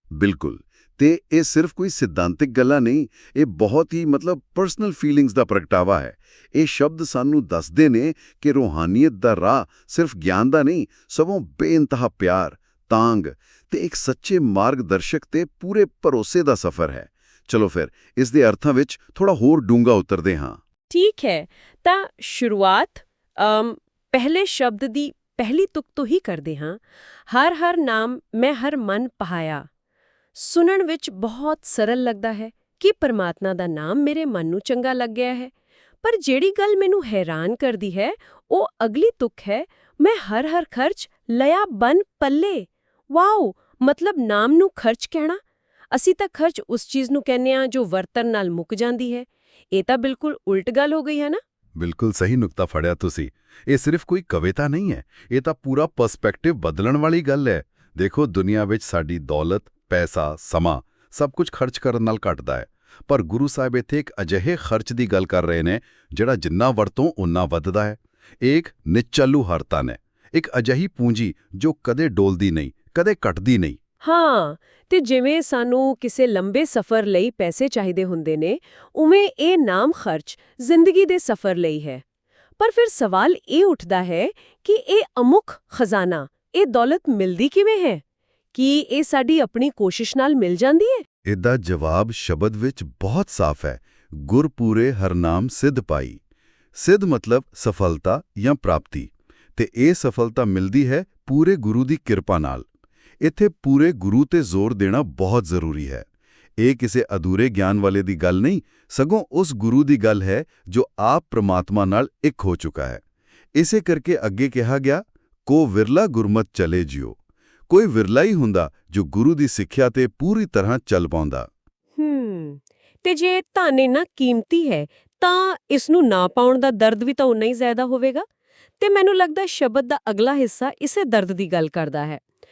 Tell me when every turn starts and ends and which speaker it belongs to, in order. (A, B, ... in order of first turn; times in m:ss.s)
0:00.1-0:20.6 A
0:20.9-0:29.6 B
0:30.3-0:35.5 B
0:36.0-0:45.4 B
0:45.9-0:51.4 B
0:51.8-1:13.8 A
1:14.0-1:22.0 B
1:22.6-1:28.0 B
1:28.5-1:31.0 B
1:31.2-1:36.2 A
1:36.7-1:42.6 A
1:43.2-1:46.0 A
1:46.6-1:53.0 A
1:53.5-1:57.2 A
1:57.7-2:01.5 A
2:02.0-2:08.2 B
2:08.8-2:12.2 B